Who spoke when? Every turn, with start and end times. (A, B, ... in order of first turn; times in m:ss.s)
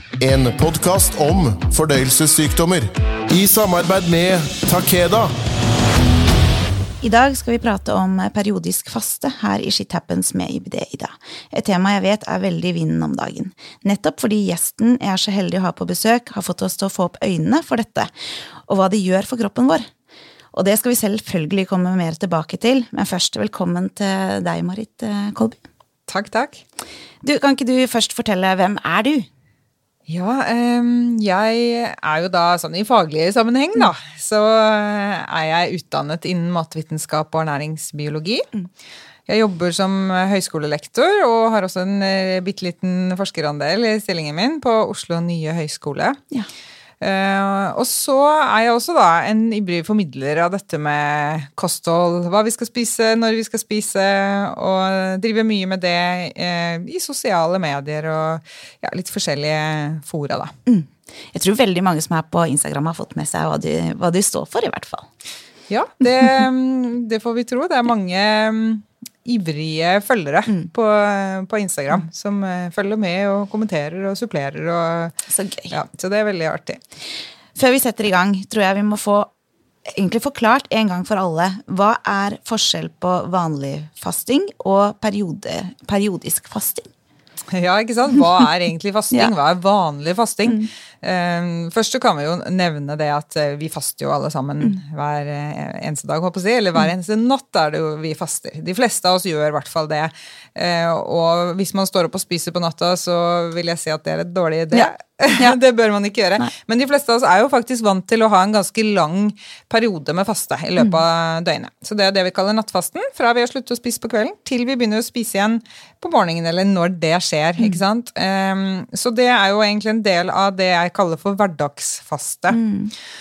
0:00.2-0:05.3 A
0:07.0-0:18.1 B
0:18.7-0:19.9 B
0:20.5-0:25.6 B
0:26.1-0:26.6 C
0:27.2-0:29.3 B
0:30.1-0:38.5 C
0:39.3-0:46.2 C
0:47.0-1:00.5 C
1:00.7-1:05.1 B
1:05.7-1:15.2 C
1:15.3-1:15.7 B
1:15.7-1:16.8 C
1:17.6-1:19.3 B
1:19.9-1:26.9 B
1:27.5-2:02.6 C
1:44.7-1:45.6 B
2:02.5-2:02.9 B